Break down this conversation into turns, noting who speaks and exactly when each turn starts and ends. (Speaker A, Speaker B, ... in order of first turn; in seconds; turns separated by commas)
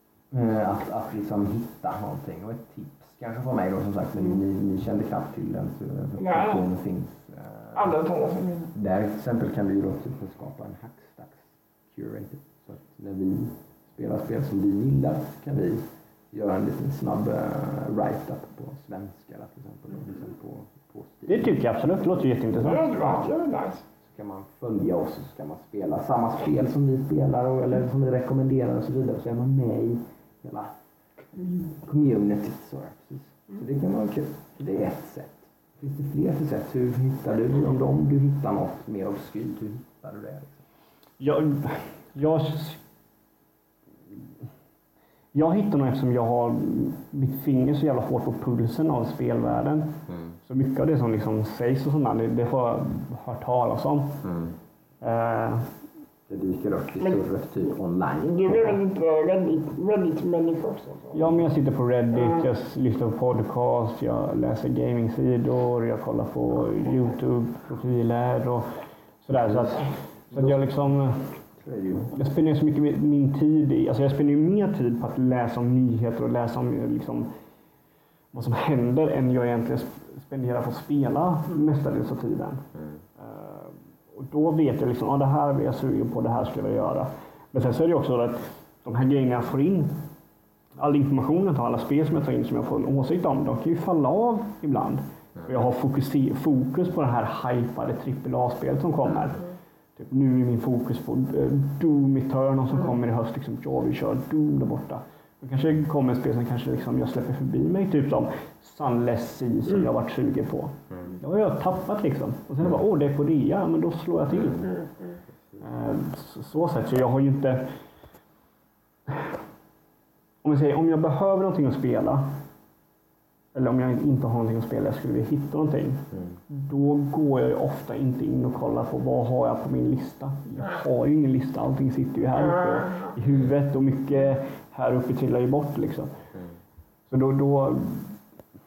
Speaker A: 0.3-7.9, Speaker B: 6.2-6.7, Speaker B: 7.7-8.7, Speaker A: 8.7-21.5, Speaker C: 21.3-23.2, Speaker B: 22.6-23.8, Speaker A: 24.0-30.8, Speaker A: 31.7-40.6, Speaker C: 41.2-42.8, Speaker C: 45.3-54.2, Speaker A: 50.1-50.4, Speaker A: 54.2-54.5, Speaker C: 55.0-55.7, Speaker A: 56.3-58.8, Speaker B: 58.2-61.3, Speaker C: 61.1-71.3, Speaker A: 69.3-70.7, Speaker A: 71.6-72.1, Speaker C: 72.1-77.3, Speaker C: 78.3-82.7, Speaker A: 82.7-83.0, Speaker C: 83.2-90.0, Speaker C: 90.8-99.4, Speaker C: 100.0-114.7, Speaker A: 114.3-114.8, Speaker C: 115.6-117.7, Speaker C: 119.1-119.3, Speaker C: 120.4-122.2, Speaker C: 123.5-136.2, Speaker A: 126.1-126.4, Speaker C: 137.1-138.2